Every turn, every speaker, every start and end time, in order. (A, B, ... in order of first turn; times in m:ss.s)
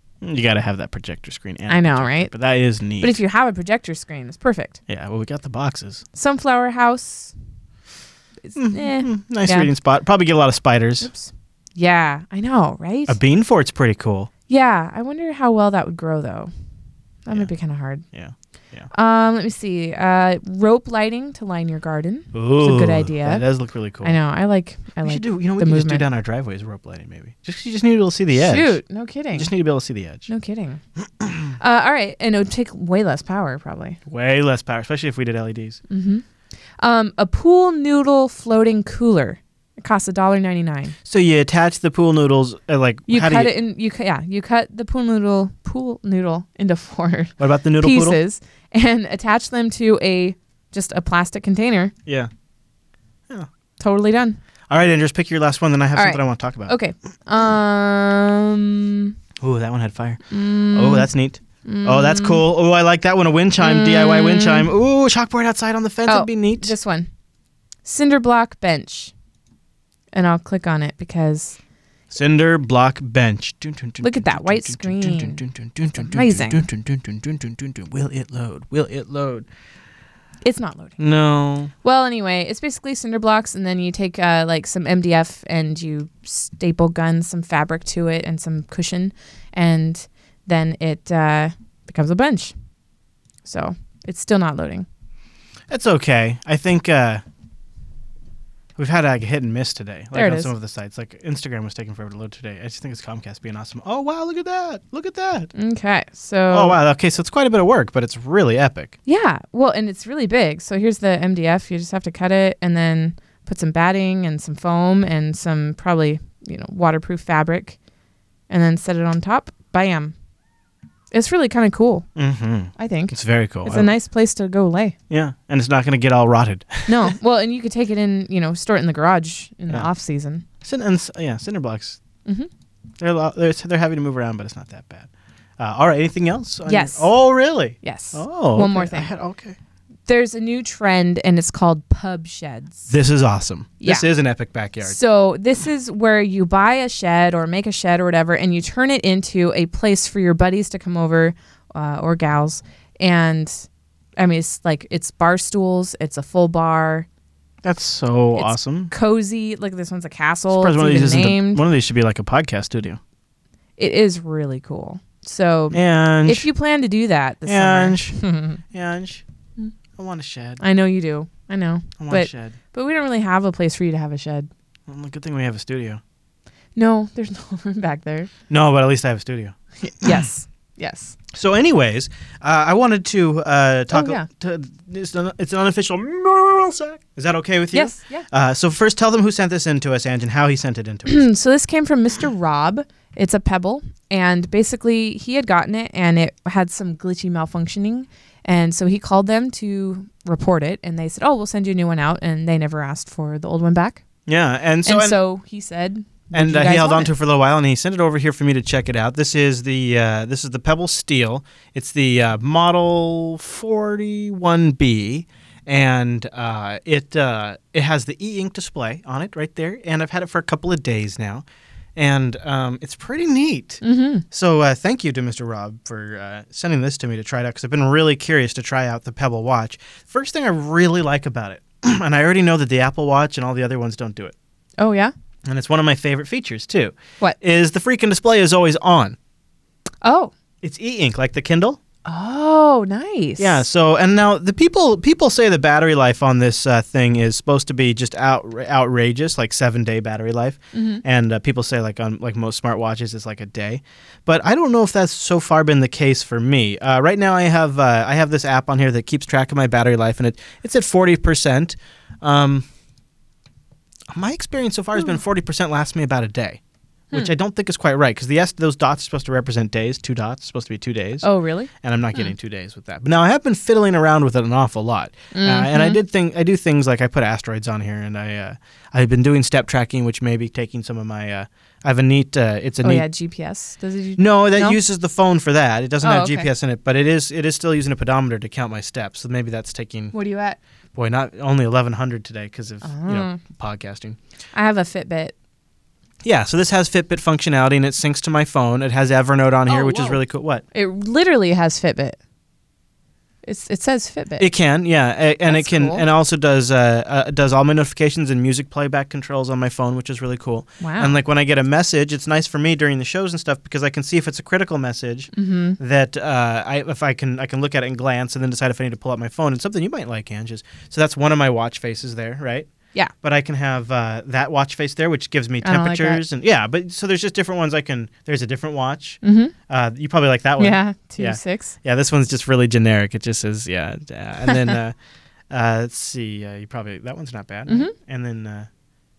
0:00.2-0:03.2 A
0:01.7-0:02.3 B
0:03.0-0:04.8 B
0:04.9-0:06.0 A
0:06.1-0:07.3 B
0:08.4-0:09.7 B
0:08.6-0:11.1 A
0:11.0-0:13.2 B
0:13.1-0:14.3 A
0:14.5-0:16.5 B
0:17.2-0:18.0 B
0:18.1-0:18.9 A
0:18.9-0:23.4 B
0:22.3-0:24.2 A
0:24.0-0:26.1 B
0:25.0-0:28.8 A
0:28.4-0:29.5 B
0:29.3-0:30.3 A
0:30.3-0:30.8 B
0:31.2-0:31.6 A
0:31.6-0:34.0 B
0:34.1-0:35.8 A
0:35.9-0:36.2 B
0:36.8-0:41.0 B
0:41.1-0:43.5 A
0:43.1-0:51.9 B
0:47.4-0:48.2 A
0:53.8-0:54.4 B
0:54.7-0:56.7 A
0:56.0-0:59.1 B
0:59.4-1:06.7 A
1:00.3-1:01.1 B
1:01.6-1:02.4 B
1:03.6-1:04.7 B
1:06.1-1:07.1 B
1:07.9-1:09.1 B
1:10.1-1:11.6 B
1:12.1-1:19.5 A
1:14.0-1:15.4 B
1:16.0-1:16.7 B
1:20.4-1:21.0 B
1:21.0-1:21.7 A
1:21.8-1:32.5 B
1:33.4-1:34.9 B
1:35.7-1:37.2 A
1:38.8-1:45.5 A
1:40.1-1:40.5 B
1:45.6-1:46.8 B
1:46.5-1:49.0 A
1:49.1-1:57.8 B
1:58.5-2:00.2 B
2:01.1-2:02.1 B
2:02.2-2:03.9 A
2:02.8-2:05.0 B
2:05.1-2:07.1 A
2:06.9-2:10.4 B
2:10.6-2:12.0 A
2:13.0-2:19.6 A
2:16.7-2:17.1 B
2:17.8-2:19.1 B
2:20.1-2:22.9 B
2:22.9-2:25.0 A
2:23.8-2:24.1 B
2:24.8-2:37.1 B
2:37.6-2:38.9 A
2:38.4-2:41.6 B
2:40.5-2:43.0 A
2:43.8-2:48.6 B
2:45.7-2:46.5 A
2:47.5-2:48.2 A
2:48.7-2:49.2 A
2:50.0-2:50.6 A
2:50.6-2:54.5 B
2:52.0-2:52.6 A
2:54.9-2:56.0 A
2:56.8-2:58.3 B
2:58.5-3:00.3 A
2:59.8-3:01.2 B
3:01.3-3:11.2 A
3:03.9-3:04.3 B
3:07.7-3:08.3 B
3:11.1-3:24.0 B
3:24.3-3:25.2 A
3:24.8-3:27.1 B
3:26.3-3:41.4 A
3:42.0-3:54.4 A
3:43.8-3:44.2 B
3:54.8-3:55.1 B
3:55.5-3:59.2 A
4:00.0-4:00.3 B
4:00.6-4:01.8 A
4:02.0-4:03.6 B
4:03.4-4:22.6 A
4:10.7-4:11.0 B
4:24.1-4:26.6 A
4:27.1-4:43.0 A
4:31.2-4:32.3 B
4:35.3-4:36.0 B
4:42.8-4:44.8 B
4:44.2-4:50.1 A
4:46.0-4:46.5 B
4:50.1-4:50.6 B
4:50.9-4:54.2 A
4:52.8-4:53.4 B
4:54.5-4:55.4 B
4:56.2-5:00.6 A
4:59.7-5:00.2 B
5:00.7-5:02.2 B
5:03.4-5:04.5 B
5:04.4-5:22.7 A
5:05.5-5:06.0 B
5:10.8-5:11.2 B
5:15.3-5:15.8 B
5:23.2-5:35.0 A
5:25.6-5:26.2 B
5:29.2-5:29.5 B
5:30.6-5:31.8 B
5:34.5-5:34.8 B
5:35.5-5:38.7 A
5:37.7-5:37.9 B